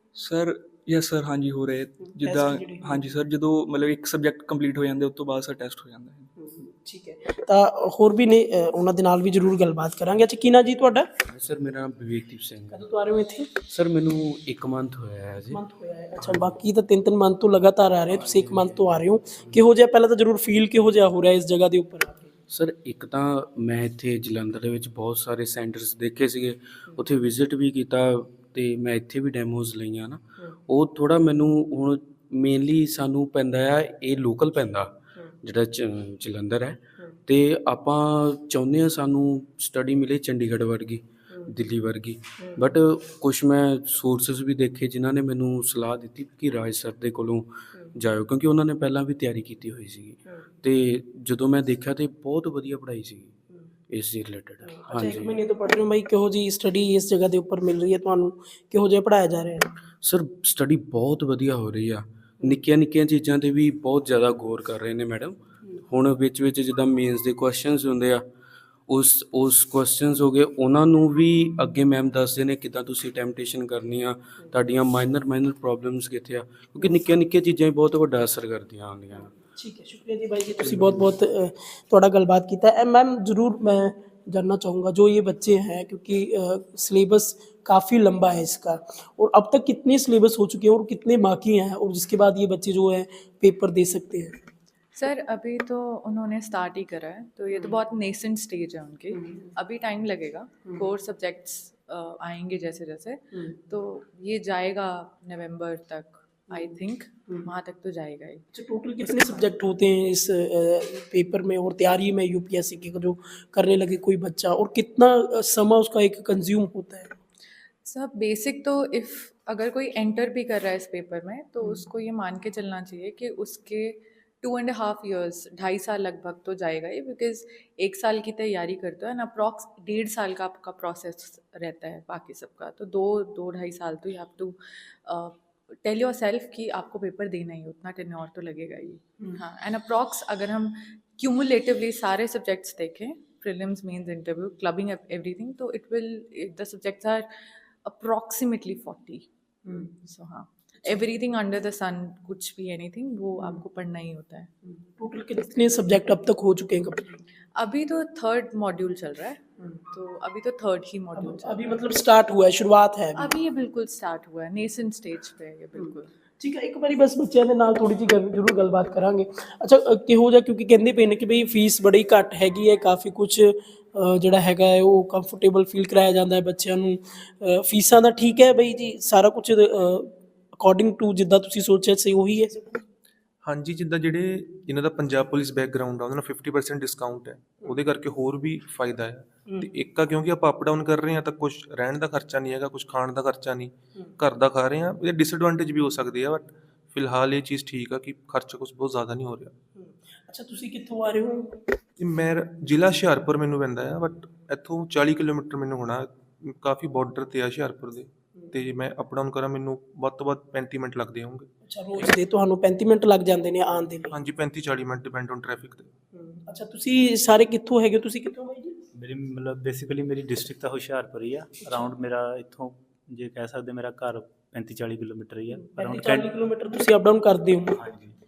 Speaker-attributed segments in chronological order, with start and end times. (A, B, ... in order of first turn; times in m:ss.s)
0:00.2-0:06.3 A
0:02.2-0:03.0 B
0:06.4-0:11.1 B
0:11.3-0:12.9 C
0:12.7-0:13.5 B
0:13.6-0:15.6 C
0:15.5-0:22.3 B
0:16.2-0:16.6 C
0:18.1-0:19.6 C
0:22.5-0:53.4 C
0:53.9-0:55.4 C
0:54.7-0:59.7 B
1:00.0-1:08.3 C
1:08.9-1:19.3 C
1:19.5-1:34.3 B
1:20.7-1:21.0 D
1:35.0-1:48.4 E
1:39.2-1:39.4 B
1:48.5-1:57.1 B
1:57.8-2:27.3 E
2:27.8-2:29.3 E
2:29.7-2:29.9 B
2:30.0-2:34.5 E
2:34.7-2:37.2 B
2:37.6-2:39.4 E
2:39.9-2:41.9 E
2:41.2-2:43.3 B
2:43.2-2:46.1 E
2:45.8-3:02.8 B
3:03.4-3:19.5 F
3:19.8-3:21.6 B
3:22.0-3:31.5 F
3:31.6-3:34.2 B
3:34.1-3:35.9 F
3:36.1-3:38.8 B
3:38.9-3:46.3 D
3:45.6-3:47.8 B
3:47.7-3:48.2 D